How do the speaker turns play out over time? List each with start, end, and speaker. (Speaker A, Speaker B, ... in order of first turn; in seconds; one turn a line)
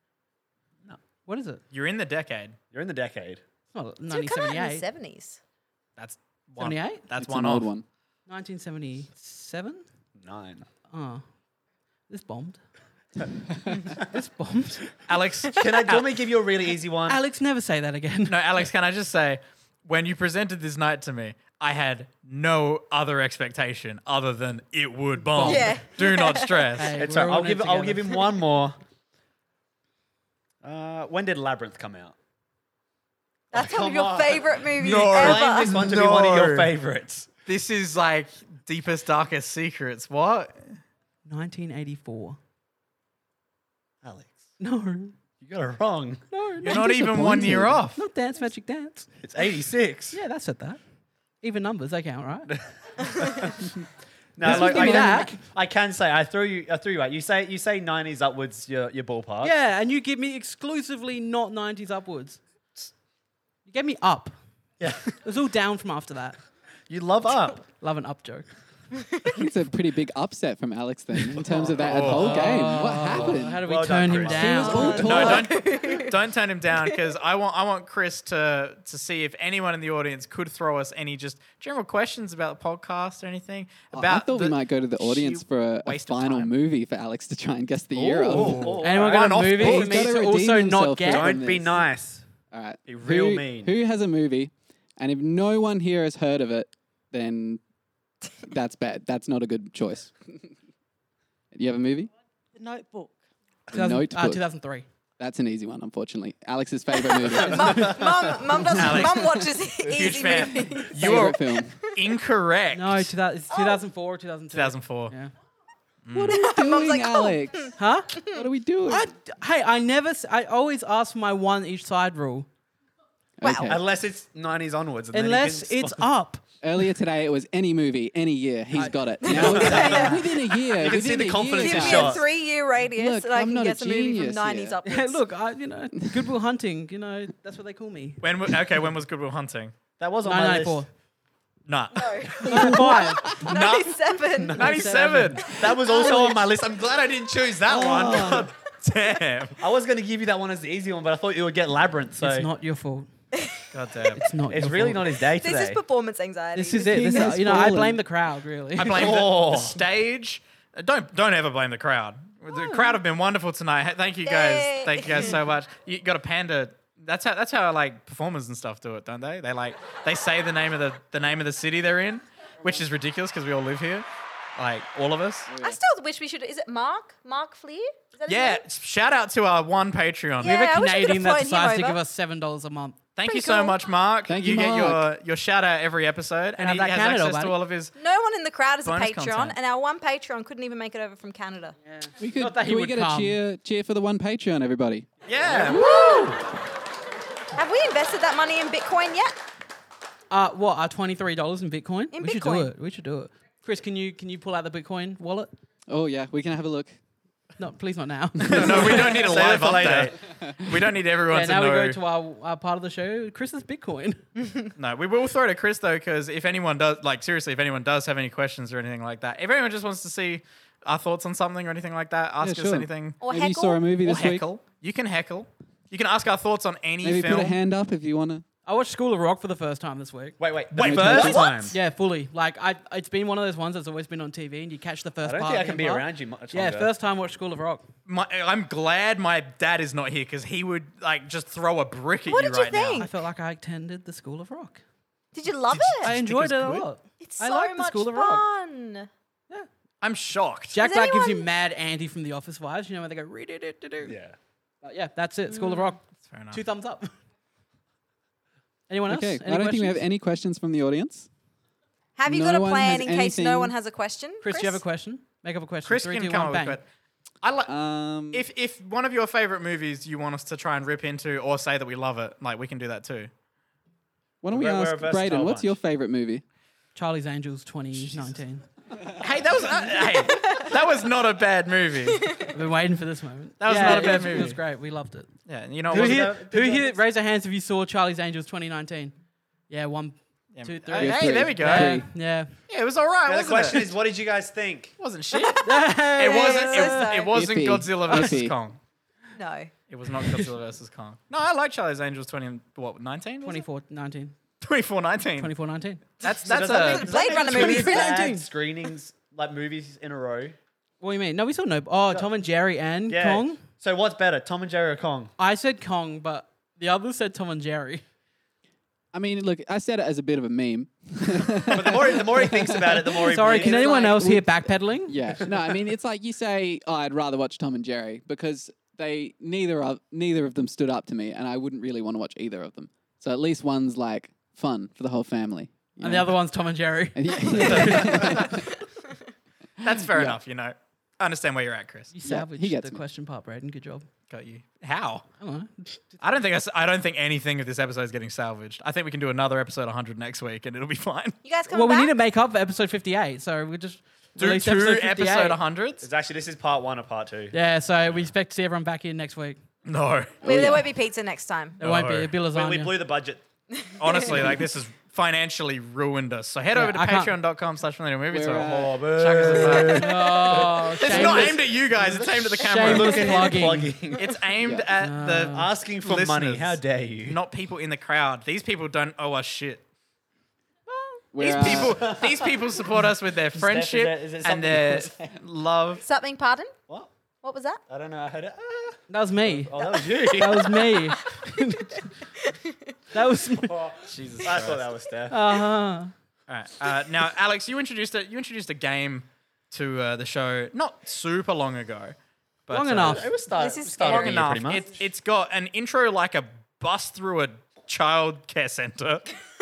Speaker A: 1.3-1.6
Speaker B: 1.7-2.5
Speaker C: 2.7-3.4
Speaker A: 3.7-4.9
Speaker D: 4.1-5.4
Speaker B: 6.0-7.7
Speaker A: 6.6-7.0
Speaker E: 7.2-7.8
Speaker A: 8.3-9.8
Speaker C: 10.2-10.7
Speaker A: 10.9-11.2
Speaker A: 12.1-12.6
Speaker A: 14.0-14.8
Speaker B: 15.1-16.1
Speaker C: 15.6-17.2
Speaker A: 17.1-18.4
Speaker B: 18.3-26.9
Speaker A: 25.3-25.8
Speaker D: 25.4-26.7
Speaker A: 26.7-28.0
Speaker C: 27.0-28.8
Speaker C: 30.6-32.1
Speaker D: 33.5-35.8
Speaker C: 33.5-37.3
Speaker B: 34.8-36.7
Speaker B: 37.5-40.8
Speaker A: 41.2-42.4
Speaker C: 44.0-44.5
Speaker A: 44.6-45.1
Speaker C: 45.4-46.2
Speaker A: 46.3-49.1
Speaker B: 46.6-48.0
Speaker E: 46.7-47.8
Speaker C: 49.2-50.2
Speaker A: 50.1-50.8
Speaker A: 51.4-52.5
Speaker C: 53.0-53.8
Speaker C: 54.4-59.5
Speaker A: 54.4-55.4
Speaker E: 54.4-55.3
Speaker A: 59.4-62.4
Speaker A: 63.7-64.3
Speaker C: 64.8-65.1
Speaker A: 65.2-66.4
Speaker C: 66.9-67.6
Speaker A: 67.6-68.5
Speaker E: 69.3-75.6
Speaker C: 71.4-75.3
Speaker B: 71.8-72.5
Speaker A: 72.2-75.4
Speaker D: 74.7-76.1
Speaker B: 75.0-86.5
Speaker E: 83.9-88.8
Speaker C: 87.9-89.9
Speaker B: 88.3-90.0
Speaker A: 88.8-91.3
Speaker E: 89.5-91.9
Speaker C: 91.0-92.2
Speaker E: 92.5-97.6
Speaker C: 92.9-93.7
Speaker E: 98.4-100.1
Speaker E: 101.5-102.1
Speaker E: 103.7-104.4
Speaker A: 103.7-104.8
Speaker E: 105.2-107.9
Speaker C: 107.4-110.7
Speaker D: 107.4-111.2
Speaker B: 109.9-111.3
Speaker E: 110.9-111.8
Speaker B: 111.9-113.1
Speaker A: 112.7-115.3
Speaker D: 113.5-113.8
Speaker B: 114.5-115.1
Speaker B: 116.0-116.4
Speaker E: 116.1-117.7
Speaker D: 116.3-117.7
Speaker A: 117.8-118.2
Speaker E: 118.2-119.1
Speaker A: 118.8-122.5
Speaker E: 123.4-123.8
Speaker D: 123.4-123.7
Speaker C: 123.5-126.0
Speaker A: 125.1-126.4
Speaker E: 126.6-132.2
Speaker A: 128.8-129.6
Speaker D: 129.2-130.6
Speaker C: 129.3-132.2
Speaker D: 131.6-135.2
Speaker E: 133.0-134.8
Speaker A: 134.8-138.6
Speaker B: 138.2-139.7
Speaker C: 140.0-140.8
Speaker A: 140.2-140.9
Speaker B: 141.7-142.7
Speaker D: 141.9-142.6
Speaker A: 142.4-143.4
Speaker D: 143.1-144.7
Speaker C: 143.4-148.5
Speaker B: 144.5-145.6
Speaker A: 144.6-145.4
Speaker E: 145.7-146.4
Speaker E: 147.7-148.5
Speaker B: 147.8-149.6
Speaker C: 149.6-152.5
Speaker A: 152.2-153.1
Speaker D: 153.4-153.7
Speaker B: 153.7-154.2
Speaker A: 154.2-155.1
Speaker C: 154.5-155.8
Speaker D: 155.4-157.2
Speaker A: 156.5-159.1
Speaker E: 156.8-158.0
Speaker B: 158.8-174.1
Speaker C: 158.9-159.8
Speaker D: 162.6-162.9
Speaker D: 164.2-165.4
Speaker B: 174.6-175.5
Speaker E: 175.5-175.8
Speaker D: 175.6-178.6
Speaker B: 178.3-180.6
Speaker D: 180.4-182.0
Speaker A: 180.4-183.0
Speaker B: 183.2-187.9
Speaker D: 183.2-183.8
Speaker E: 184.3-185.1
Speaker A: 186.6-187.6
Speaker D: 187.9-191.7
Speaker B: 188.8-189.6
Speaker A: 191.8-193.4
Speaker E: 192.2-195.1
Speaker B: 195.2-196.0
Speaker E: 195.7-196.3
Speaker D: 195.7-196.4
Speaker D: 197.6-199.3
Speaker A: 200.3-205.5
Speaker D: 202.1-202.7
Speaker E: 205.9-206.9
Speaker A: 207.6-209.1
Speaker B: 208.4-212.0
Speaker C: 208.5-210.2
Speaker E: 210.4-210.8
Speaker A: 211.3-214.2
Speaker D: 214.4-214.7
Speaker B: 214.8-223.2
Speaker E: 222.4-224.4
Speaker D: 223.2-223.9
Speaker B: 224.0-227.6
Speaker E: 227.0-228.4
Speaker A: 228.7-230.4
Speaker C: 230.4-231.8
Speaker B: 230.7-231.5
Speaker E: 230.8-231.5
Speaker D: 231.1-231.7
Speaker A: 231.7-237.8
Speaker C: 235.2-236.9
Speaker B: 238.1-243.1
Speaker D: 242.3-243.1
Speaker A: 243.0-244.8
Speaker D: 245.3-246.1
Speaker B: 245.7-246.9
Speaker A: 246.0-248.4
Speaker D: 247.2-249.1
Speaker B: 250.0-250.8
Speaker A: 250.7-254.1
Speaker D: 250.8-251.5
Speaker C: 254.0-254.4
Speaker A: 254.8-257.1
Speaker D: 255.5-255.9
Speaker B: 256.2-256.6
Speaker A: 258.9-260.0
Speaker E: 259.1-261.3
Speaker D: 262.1-264.8
Speaker E: 262.3-263.7
Speaker A: 264.4-266.8
Speaker B: 265.9-266.8
Speaker B: 267.4-267.7
Speaker E: 267.6-268.5
Speaker B: 268.3-273.3
Speaker E: 274.4-276.4
Speaker C: 274.5-275.7
Speaker A: 276.9-278.6
Speaker B: 279.2-282.3
Speaker D: 282.2-282.5
Speaker A: 282.5-285.3
Speaker B: 283.6-284.6
Speaker C: 283.8-284.2
Speaker B: 285.5-286.4
Speaker C: 285.9-287.0
Speaker A: 285.9-289.1
Speaker A: 289.7-292.5
Speaker B: 290.5-292.1
Speaker E: 291.0-292.1
Speaker B: 292.7-293.9
Speaker C: 293.3-294.9
Speaker B: 295.0-298.8
Speaker D: 295.3-297.3
Speaker A: 295.6-297.1
Speaker E: 297.3-298.6
Speaker D: 299.4-299.7
Speaker B: 299.9-303.6
Speaker A: 303.4-304.4
Speaker B: 304.6-305.5
Speaker A: 305.4-306.1
Speaker B: 306.2-307.1
Speaker C: 306.4-310.6
Speaker D: 306.7-308.3
Speaker A: 307.1-308.5
Speaker A: 311.0-313.6
Speaker C: 313.1-315.3
Speaker A: 315.4-318.0
Speaker E: 319.1-336.4
Speaker C: 321.7-324.1
Speaker A: 323.2-325.5
Speaker A: 336.0-338.4
Speaker E: 337.1-338.6
Speaker B: 339.8-342.1
Speaker E: 339.9-340.4
Speaker A: 342.1-344.1
Speaker E: 342.2-343.0
Speaker B: 344.3-345.2
Speaker A: 345.4-346.2
Speaker B: 346.2-351.4
Speaker D: 351.4-352.1
Speaker A: 351.7-355.6
Speaker B: 354.4-356.1
Speaker C: 356.0-357.6
Speaker A: 357.5-359.6
Speaker B: 359.9-360.4
Speaker E: 360.4-360.9
Speaker D: 360.4-361.8
Speaker B: 361.8-362.3
Speaker A: 361.8-363.0
Speaker C: 362.5-363.4
Speaker B: 364.0-370.1
Speaker A: 366.7-367.3
Speaker E: 368.3-369.1
Speaker C: 368.9-374.3
Speaker A: 369.9-371.7
Speaker B: 371.0-373.6
Speaker A: 372.5-373.9
Speaker B: 374.2-379.8
Speaker A: 375.0-375.7
Speaker C: 375.5-377.4
Speaker E: 381.3-382.2
Speaker B: 381.4-386.0
Speaker C: 381.6-382.5
Speaker C: 383.5-385.3
Speaker D: 386.0-386.7
Speaker D: 387.4-387.8
Speaker C: 387.9-390.9
Speaker A: 389.1-389.7
Speaker A: 390.3-392.1
Speaker D: 392.4-392.8
Speaker A: 393.1-393.8
Speaker C: 393.6-395.4
Speaker B: 394.1-394.8
Speaker A: 395.3-396.1
Speaker B: 396.5-402.1
Speaker B: 402.7-403.3
Speaker A: 402.7-403.3
Speaker C: 403.0-405.0
Speaker D: 403.5-404.7
Speaker B: 404.0-409.3